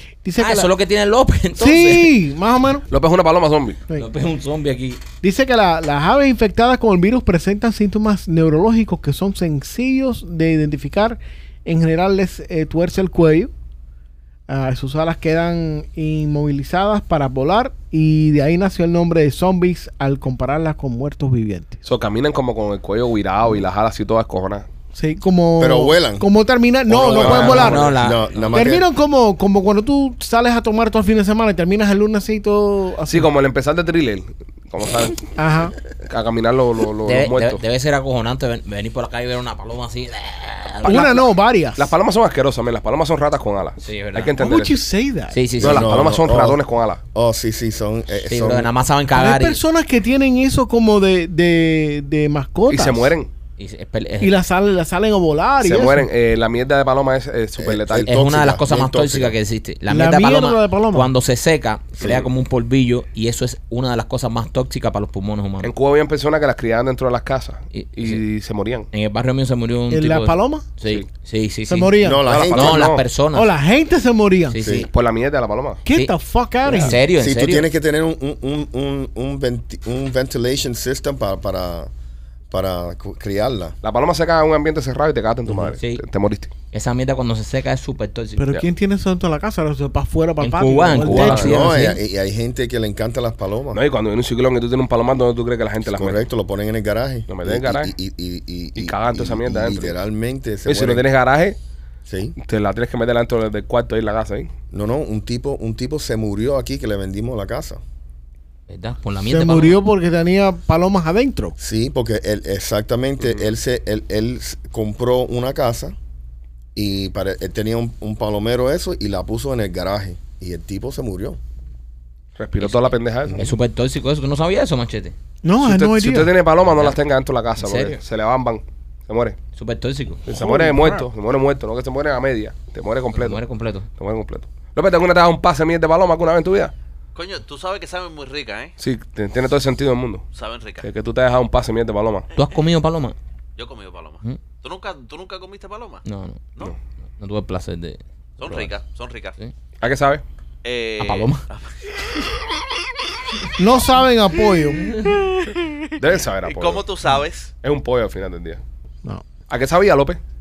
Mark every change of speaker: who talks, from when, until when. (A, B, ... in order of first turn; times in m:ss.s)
0:00.2-0:00.7 A
0:00.4-0:02.1 B
0:01.6-0:02.8 A
0:02.9-0:03.8 C
0:03.9-0:05.0 B
0:05.2-0:13.5 A
0:14.5-0:21.8 A
0:21.8-0:24.6 C
0:24.9-0:27.9 A
0:25.6-0:26.2 D
0:26.9-0:28.8 D
0:27.0-0:27.9 C
0:27.2-0:28.7 B
0:28.5-0:33.3 A
0:33.1-0:35.3 C
0:35.4-0:35.7 A
0:36.0-0:37.6 C
0:37.0-0:41.1 B
0:40.8-0:44.8 C
0:40.8-0:41.9 A
0:43.8-0:44.4 B
0:44.4-0:45.5 A
0:45.3-0:46.1 B
0:45.6-0:46.6 D
0:45.6-0:47.0 C
0:47.1-0:48.7 D
0:48.2-0:49.6 B
0:49.1-0:53.1 A
0:52.7-0:53.3 C
0:53.6-0:54.3 B
0:54.2-0:56.1 A
0:55.6-0:58.1 C
0:57.6-0:59.4 D
0:58.0-1:05.7 B
0:59.9-1:01.1 A
1:02.0-1:02.2 D
1:05.6-1:08.9 C
1:07.7-1:08.2 B
1:08.9-1:13.5 B
1:09.9-1:10.7 A
1:11.7-1:12.3 A
1:12.0-1:12.8 D
1:12.3-1:13.0 C
1:13.3-1:14.6 A
1:14.5-1:14.9 B
1:14.6-1:14.9 D
1:14.8-1:15.8 C
1:15.8-1:16.9 A
1:16.7-1:17.7 B
1:17.0-1:21.9 D
1:22.5-1:23.8 D
1:23.8-1:26.5 C
1:25.5-1:26.0 B
1:26.7-1:28.5 B
1:28.4-1:31.8 A
1:30.4-1:32.0 B
1:31.1-1:31.5 C
1:31.4-1:33.8 D
1:33.7-1:36.2 C
1:35.8-1:41.0 D
1:37.3-1:37.9 C
1:38.7-1:39.9 C
1:40.6-1:41.6 C
1:42.1-1:42.3 D
1:42.4-1:44.5 C
1:44.7-1:47.8 D
1:48.7-1:49.8 B
1:49.3-1:51.6 A
1:51.6-1:55.9 D
1:56.8-2:01.4 D
2:02.4-2:03.4 C
2:02.6-2:02.8 B
2:03.2-2:03.5 D
2:03.4-2:05.1 B
2:05.4-2:06.3 A
2:05.6-2:09.4 C
2:06.6-2:07.0 B
2:07.6-2:08.0 B
2:09.6-2:10.2 B
2:10.3-2:13.4 C
2:10.3-2:11.0 A
2:13.1-2:13.9 B
2:14.0-2:16.7 C
2:17.1-2:18.7 E
2:18.8-2:20.2 C
2:20.3-2:20.9 E
2:20.8-2:22.3 C
2:22.4-2:23.1 B
2:23.6-2:26.0 E
2:26.0-2:26.5 B
2:27.2-2:28.7 B
2:28.4-2:29.3 E
2:29.8-2:30.2 C
2:30.6-2:32.2 E
2:31.0-2:31.4 B
2:33.6-2:35.2 A
2:36.0-2:36.8 C
2:36.4-2:37.5 E
2:37.6-2:38.6 C
2:39.5-2:40.2 C